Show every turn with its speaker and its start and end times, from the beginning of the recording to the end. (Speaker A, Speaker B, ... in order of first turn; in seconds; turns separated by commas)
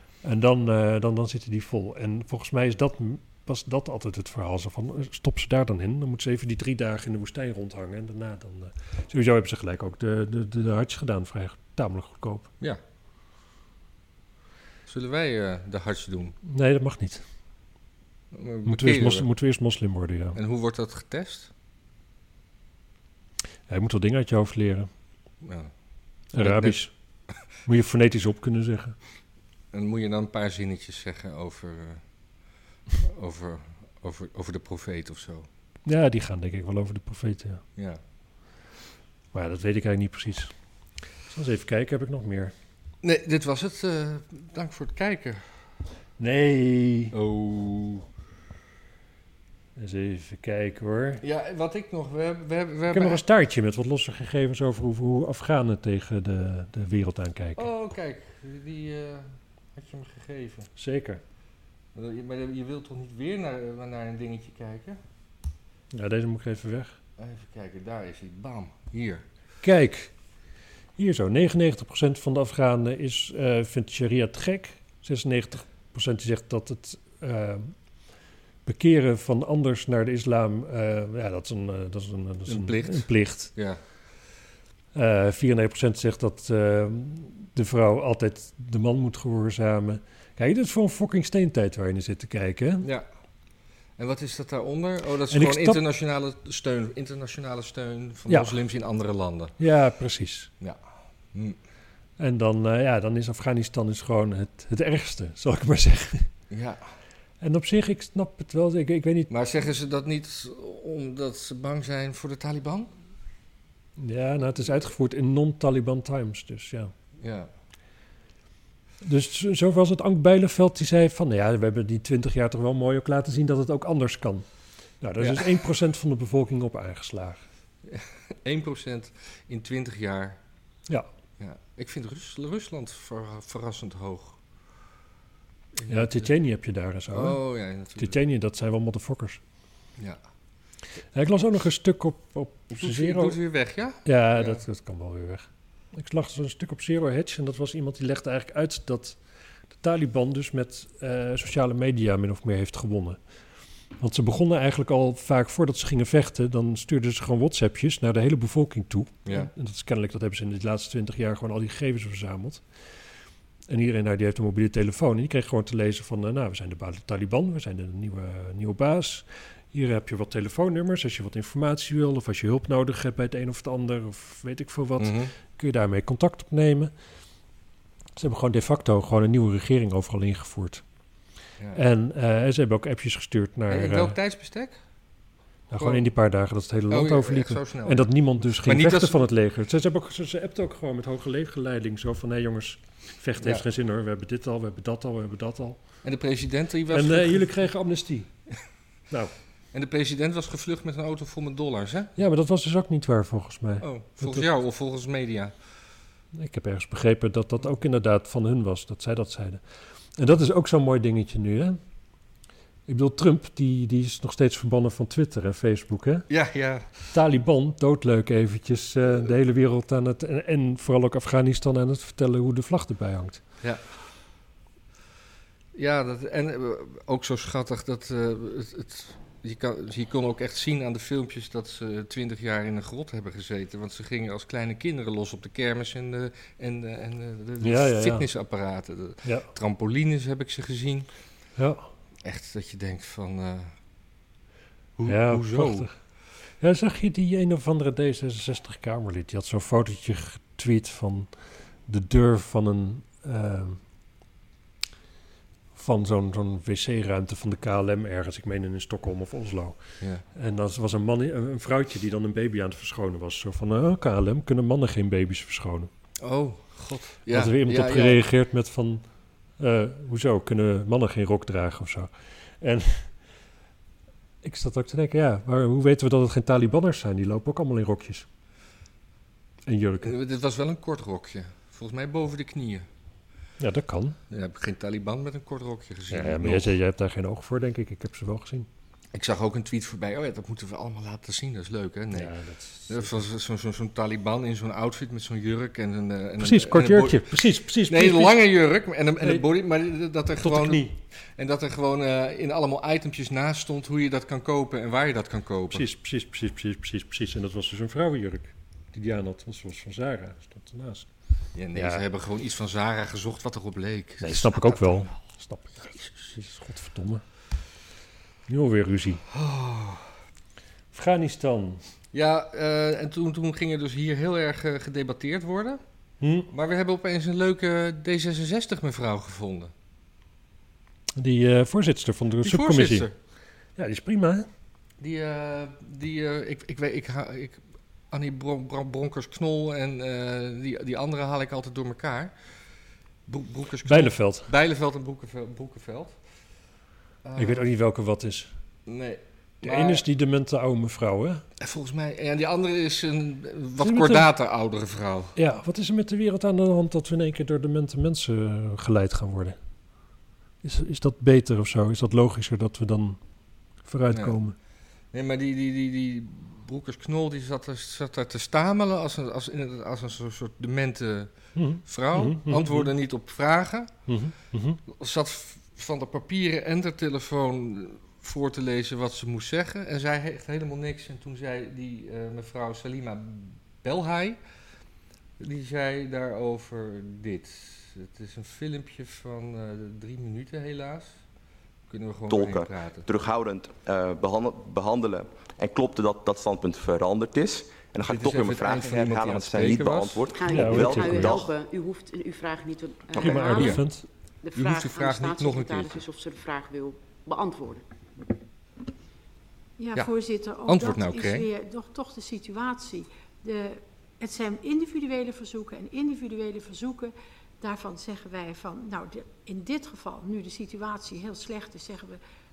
Speaker A: 0.2-12.5, Speaker B: 14.8-16.4, Speaker A: 16.4-17.2, Speaker B: 18.3-19.3, Speaker A: 18.6-20.4, Speaker B: 20.3-21.5, Speaker A: 23.7-24.9, Speaker B: 25.4-25.7, Speaker A: 26.3-26.9, Speaker B: 26.3-26.8, Speaker A: 27.6-28.9, Speaker B: 29.7-32.0, Speaker B: 33.0-35.5, Speaker A: 35.8-37.6, Speaker B: 37.8-38.0, Speaker A: 39.3-40.5, Speaker A: 41.3-42.5, Speaker B: 43.0-45.4, Speaker A: 46.2-47.1, Speaker B: 47.1-48.0, Speaker A: 49.8-51.2, Speaker B: 51.2-53.2, Speaker A: 52.9-57.7, Speaker B: 57.6-60.7, Speaker A: 60.8-61.2, Speaker B: 61.9-65.0, Speaker A: 65.9-67.0, Speaker B: 67.2-69.2, Speaker A: 69.6-70.1, Speaker A: 71.0-77.7, Speaker A: 78.7-83.5, Speaker B: 82.5-83.8, Speaker A: 84.9-92.9, Speaker B: 94.0-99.5, Speaker A: 95.3-95.8, Speaker A: 98.3-98.6, Speaker A: 99.6-100.5, Speaker A: 102.2-106.3, Speaker B: 106.5-106.8, Speaker A: 107.4-109.3, Speaker B: 109.3-112.9, Speaker A: 114.0-116.9, Speaker B: 117.2-117.5, Speaker A: 119.0-124.5, Speaker A: 125.0-127.4, Speaker B: 125.2-125.6, Speaker B: 127.8-130.4, Speaker B: 131.4-134.4, Speaker B: 135.7-136.3, Speaker A: 135.9-137.4, Speaker B: 137.1-138.2, Speaker A: 137.9-139.4, Speaker A: 141.1-143.4, Speaker B: 142.7-144.6, Speaker A: 144.0-149.2, Speaker A: 149.7-153.2, Speaker A: 154.0-162.6, Speaker A: 163.7-176.9, Speaker B: 175.0-175.3, Speaker A: 178.2-180.8, Speaker A: 181.7-184.2, Speaker B: 183.7-184.8, Speaker A: 185.7-195.8, Speaker B: 185.7-186.1, Speaker B: 186.9-188.1, Speaker B: 188.6-189.2, Speaker B: 196.0-197.5, Speaker A: 196.9-198.3, Speaker B: 199.7-202.2, Speaker A: 202.2-204.5, Speaker B: 203.8-205.5, Speaker A: 206.3-209.6, Speaker A: 210.2-211.8, Speaker A: 212.9-216.3, Speaker B: 216.3-216.9, Speaker A: 217.1-223.4, Speaker B: 225.7-241.1, Speaker A: 237.6-238.3, Speaker A: 241.6-241.9, Speaker B: 242.2-243.7, Speaker B: 245.0-245.9, Speaker A: 245.1-245.9, Speaker A: 246.6-251.3, Speaker A: 251.9-253.8, Speaker A: 255.7-259.8, Speaker A: 260.3-265.9, Speaker B: 266.2-268.2, Speaker A: 267.3-269.0, Speaker A: 269.6-273.1, Speaker A: 274.4-278.2, Speaker A: 279.7-280.1, Speaker B: 280.0-282.9, Speaker A: 283.6-284.2, Speaker B: 284.3-286.7, Speaker A: 286.1-288.7, Speaker B: 289.1-292.3, Speaker A: 292.1-293.2, Speaker B: 292.9-297.3, Speaker A: 296.4-298.4, Speaker B: 297.9-305.9, Speaker A: 300.4-300.9, Speaker A: 305.7-311.1, Speaker B: 311.5-315.1, Speaker A: 311.7-312.0, Speaker A: 314.2-317.2, Speaker B: 315.8-316.1, Speaker A: 318.5-319.2, Speaker B: 319.3-320.1, Speaker A: 320.9-321.8, Speaker B: 322.1-325.8, Speaker A: 326.2-326.5, Speaker B: 326.5-329.7, Speaker A: 331.2-333.1, Speaker B: 332.4-333.1, Speaker A: 333.8-334.5, Speaker B: 335.0-342.3, Speaker B: 343.3-346.1, Speaker A: 343.8-344.5, Speaker B: 347.2-347.6, Speaker A: 347.4-348.5, Speaker B: 348.9-350.0, Speaker A: 349.6-351.4, Speaker B: 351.6-355.4, Speaker A: 353.8-354.3, Speaker A: 355.4-359.6, Speaker A: 360.6-363.2, Speaker A: 363.8-364.5, Speaker B: 364.1-364.4, Speaker B: 365.1-371.3, Speaker A: 371.6-372.9, Speaker B: 371.8-373.9, Speaker A: 374.1-374.8, Speaker B: 374.9-384.4, Speaker B: 385.4-391.2, Speaker B: 391.9-393.0, Speaker C: 392.3-401.5, Speaker B: 398.0-400.3, Speaker D: 400.3-403.9, Speaker A: 400.5-401.4, Speaker A: 403.2-404.0, Speaker B: 403.4-403.8, Speaker D: 404.4-407.8, Speaker B: 404.5-406.0, Speaker E: 409.8-422.2, Speaker B: 410.7-411.5